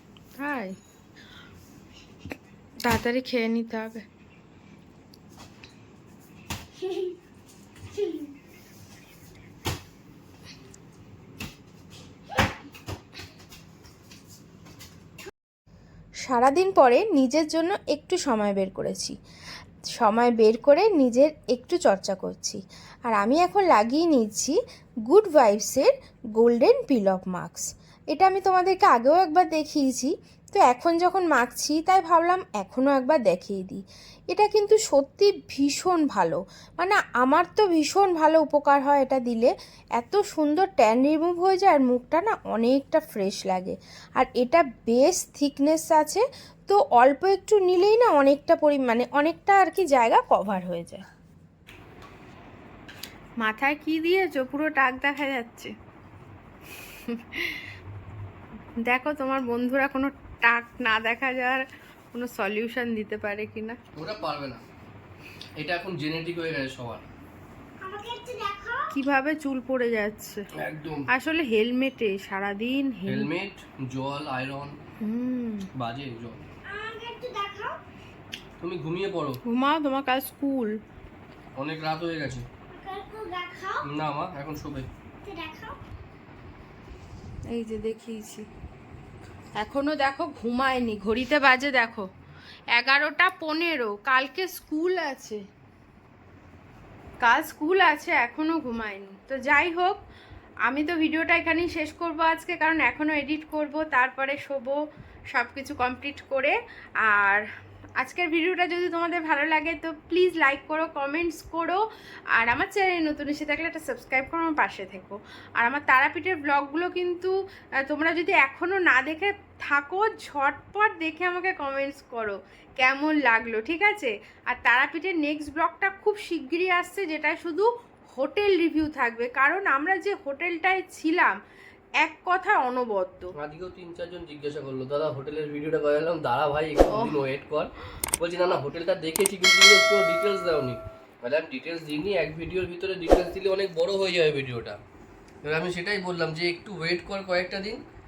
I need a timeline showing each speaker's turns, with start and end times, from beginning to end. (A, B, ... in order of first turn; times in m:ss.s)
0:00.4-0:00.8 A
0:02.8-0:04.0 A
0:06.8-0:07.2 B
0:07.9-0:08.3 B
0:16.2-0:19.2 A
0:20.0-0:24.6 A
0:25.1-0:51.0 A
0:53.4-0:55.7 A
0:57.1-0:57.6 A
0:58.9-1:03.8 A
1:04.0-1:04.6 C
1:05.6-1:07.1 C
1:07.8-1:08.9 B
1:08.9-1:10.4 A
1:10.6-1:11.0 C
1:11.1-1:13.3 A
1:13.1-1:14.8 C
1:15.0-1:15.7 A
1:15.8-1:16.4 C
1:16.7-1:17.8 B
1:18.6-1:19.4 C
1:19.5-1:20.8 A
1:21.6-1:22.5 C
1:22.7-1:23.9 B
1:23.8-1:24.9 C
1:25.2-1:25.8 B
1:27.5-1:28.5 A
1:29.6-1:32.1 A
1:32.7-1:35.4 A
1:37.2-1:40.0 A
1:40.7-1:44.8 A
1:45.3-1:47.4 A
1:48.0-1:51.8 A
1:52.4-2:11.4 A
2:12.0-2:13.3 A
2:13.4-2:24.8 C
2:25.4-2:27.8 C